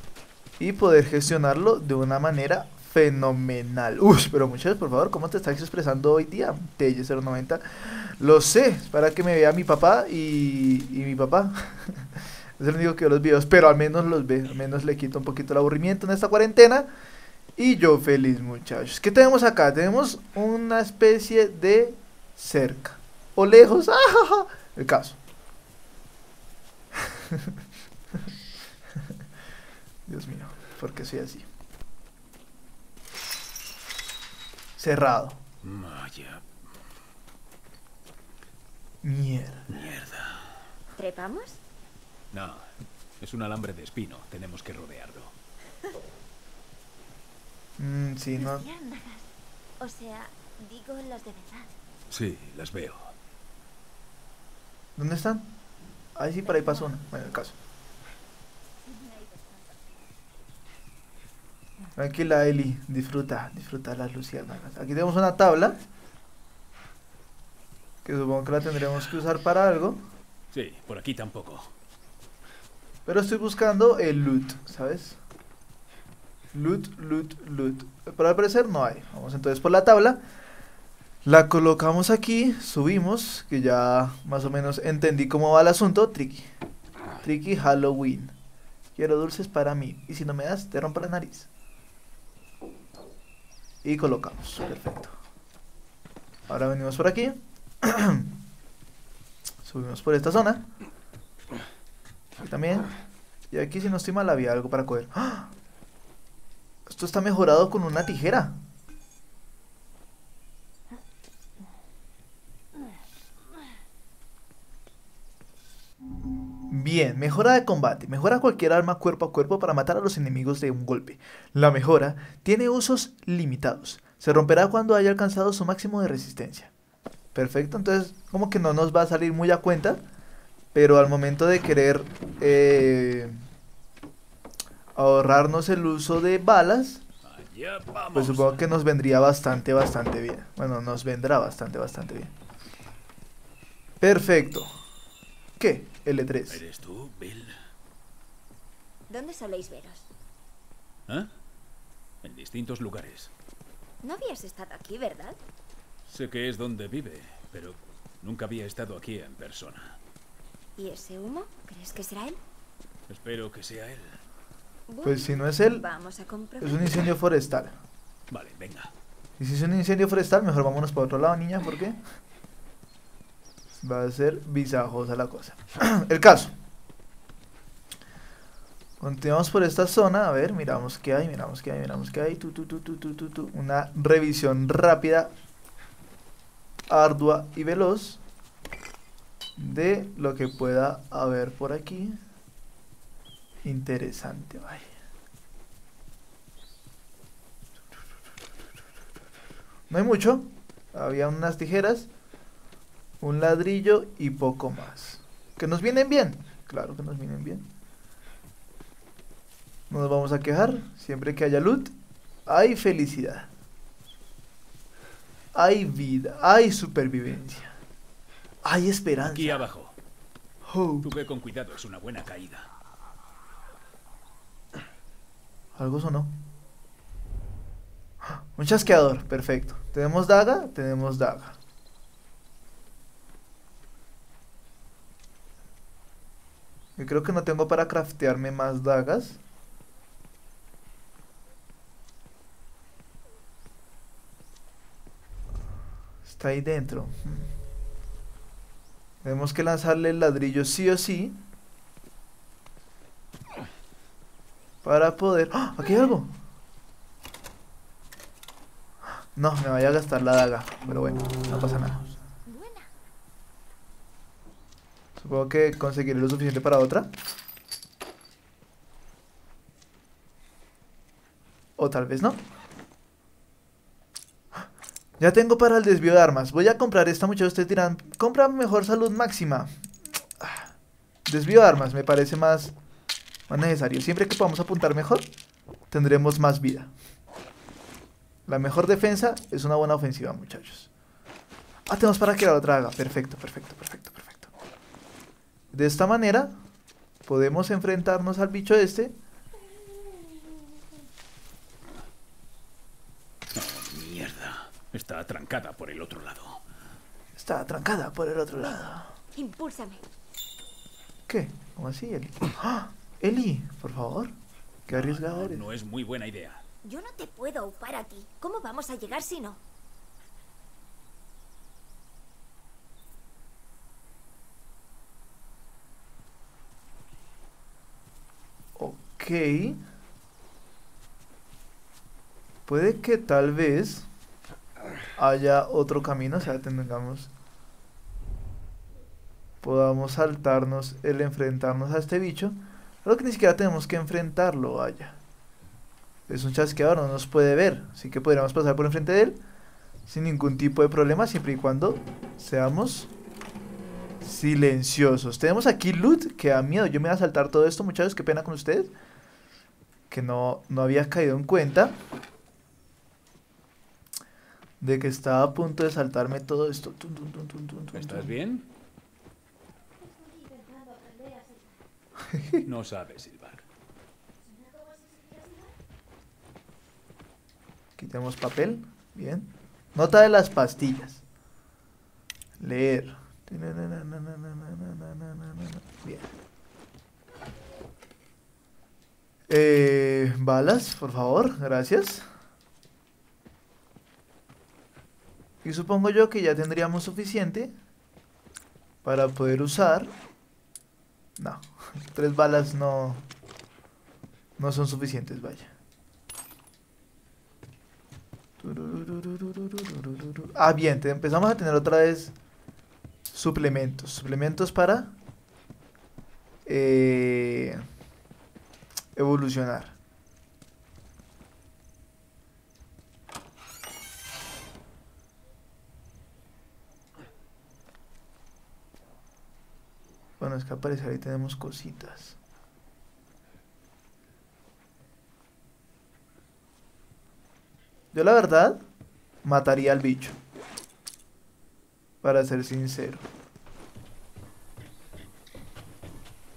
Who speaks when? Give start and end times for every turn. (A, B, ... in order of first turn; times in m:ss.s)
0:00.6-0:16.9 A
0:17.6-0:25.2 A
0:27.0-0:27.5 A
0:30.1-0:31.5 A
0:34.8-0:35.4 A
0:35.6-0:36.4 B
0:39.0-0:39.7 A
0:39.7-0:40.6 B
0:41.0-0:41.6 C
0:42.3-0:45.3 B
0:47.8-0:48.6 A
0:48.4-0:49.3 C
0:49.8-0:51.7 C
0:52.1-0:53.1 B
0:55.0-0:55.5 A
0:56.2-0:57.6 A
0:56.4-0:57.2 C
0:58.8-1:00.0 C
1:02.0-1:05.8 A
1:08.0-1:10.0 A
1:10.5-1:11.7 B
1:13.0-1:15.2 A
1:16.5-1:20.2 A
1:21.2-1:26.5 A
1:27.2-1:28.3 A
1:29.0-1:31.5 A
1:33.8-1:35.1 A
1:36.5-1:38.3 A
1:39.6-1:40.7 A
1:42.4-1:42.9 A
1:43.5-1:45.5 A
1:46.9-1:48.6 A
1:56.7-2:06.7 A
2:07.3-2:10.0 A
2:10.7-2:13.4 A
2:15.0-2:17.0 A
2:17.2-2:18.7 B
2:18.1-2:22.3 A
2:24.0-2:24.7 A
2:25.6-2:26.6 A
2:26.5-2:27.6 B
2:29.1-2:30.1 C
2:32.2-2:33.3 B
2:34.0-2:35.4 C
2:36.0-2:40.0 B
2:40.8-2:42.4 C
2:43.1-2:44.2 B
2:44.9-2:47.1 C
2:45.0-2:45.8 A
2:46.6-2:47.7 A
2:48.3-2:48.9 B
2:49.4-2:52.0 A
2:53.8-2:56.5 A
2:59.0-3:05.3 A
3:06.9-3:08.2 A
3:09.6-3:12.2 A
3:13.6-3:14.9 A
3:19.9-3:22.1 A
3:23.2-3:27.6 A
3:29.9-3:31.9 A
3:32.4-3:33.5 A
3:35.5-3:37.8 A
3:38.6-3:39.6 A
3:39.3-3:40.0 B
3:40.6-3:41.1 A
3:41.0-3:42.7 B
3:45.8-3:46.3 A
3:48.2-3:51.6 A
3:57.0-3:59.4 A
4:06.2-4:07.5 A
4:09.2-4:11.4 A
4:14.8-4:16.3 A
4:19.3-4:22.1 A
4:22.4-4:22.9 C
4:25.2-4:27.1 A
4:31.8-4:32.4 A
4:35.2-4:39.7 A
4:40.4-4:40.7 A
4:41.3-4:42.7 A
4:43.5-4:45.2 A
4:45.9-4:46.9 A
4:48.5-4:50.9 A
4:51.9-4:54.5 A
4:55.7-4:56.5 A
4:57.3-4:59.1 A
5:03.5-5:06.6 B
5:07.4-5:09.1 A
5:09.3-5:10.0 C
5:11.3-5:14.3 A
5:14.9-5:15.6 A
5:14.9-5:16.6 B
5:16.8-5:19.6 C
5:28.8-5:29.8 A
5:32.7-5:34.1 A
5:35.2-5:37.3 A
5:39.6-5:45.2 A
5:46.3-5:49.4 A
5:50.1-5:53.1 A
5:54.2-5:58.9 A
6:00.1-6:02.0 A
6:04.8-6:08.3 A
6:07.9-6:08.7 B
6:10.0-6:11.8 C
6:12.3-6:12.6 A
6:12.6-6:13.6 B
6:14.4-6:15.7 C
6:18.0-6:21.2 A
6:22.6-6:26.3 A
6:29.5-6:32.3 A
6:35.6-6:37.7 A
6:39.0-6:40.1 A
6:41.4-6:43.2 A
6:44.6-6:45.7 A
6:48.6-6:52.3 A
6:53.3-6:55.1 A
6:56.6-6:57.8 A
6:59.1-7:00.0 A
7:10.4-7:12.4 A
7:18.1-7:18.8 A
7:19.4-7:20.4 A
7:22.2-7:23.2 A